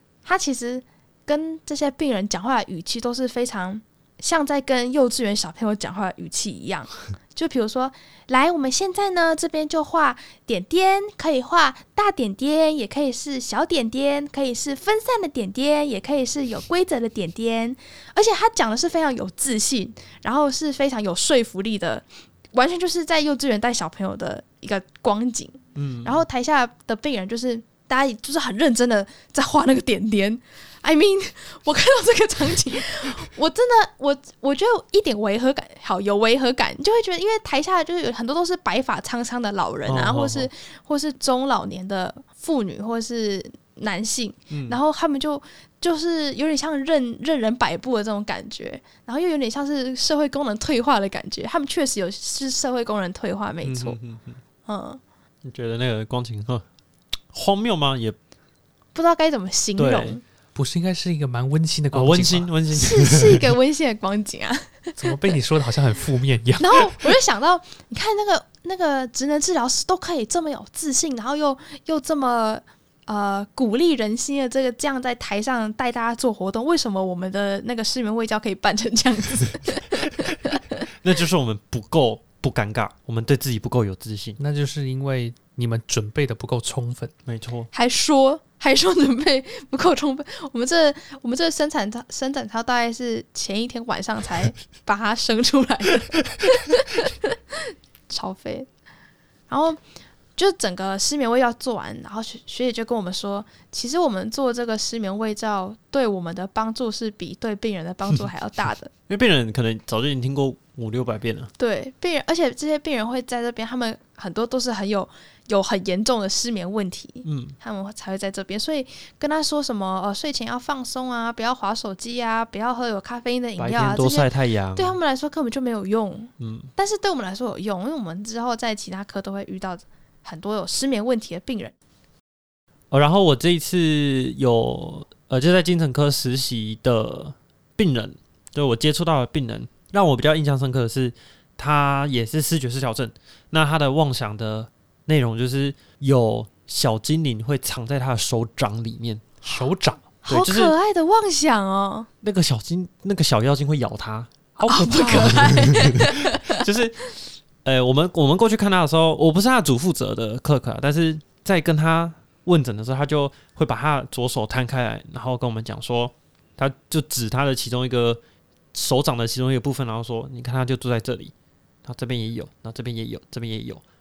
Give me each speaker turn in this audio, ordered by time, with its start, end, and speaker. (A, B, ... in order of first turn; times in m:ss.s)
0:00.2-0:54.0 A
0:25.8-0:26.2 B
0:39.9-0:40.5 B
0:44.5-0:44.8 B
0:53.6-0:54.4 B
0:54.6-0:55.0 A
0:55.4-0:56.6 B
0:57.3-0:58.2 B
0:59.0-1:00.2 A
0:59.8-1:00.2 B
1:00.6-1:02.5 C
1:01.9-1:03.5 B
1:02.7-1:05.4 A
1:05.0-1:07.1 C
1:06.6-1:20.8 A
1:20.9-1:24.4 B
1:24.4-1:27.1 C
1:27.3-1:27.7 B
1:27.7-1:38.7 A
1:39.5-1:39.8 A
1:40.4-1:48.9 A
1:49.1-1:51.5 B
1:51.6-2:11.7 A
1:57.2-1:57.6 B
2:03.6-2:05.0 B
2:06.4-2:06.7 B
2:12.9-2:29.4 B
2:29.4-2:30.1 C
2:30.2-2:32.1 A
2:30.3-2:30.7 B
2:32.2-2:34.3 B
2:34.6-2:35.9 C
2:34.7-2:36.7 A
2:35.1-2:48.2 B
2:48.7-2:51.3 B
2:51.8-2:53.8 B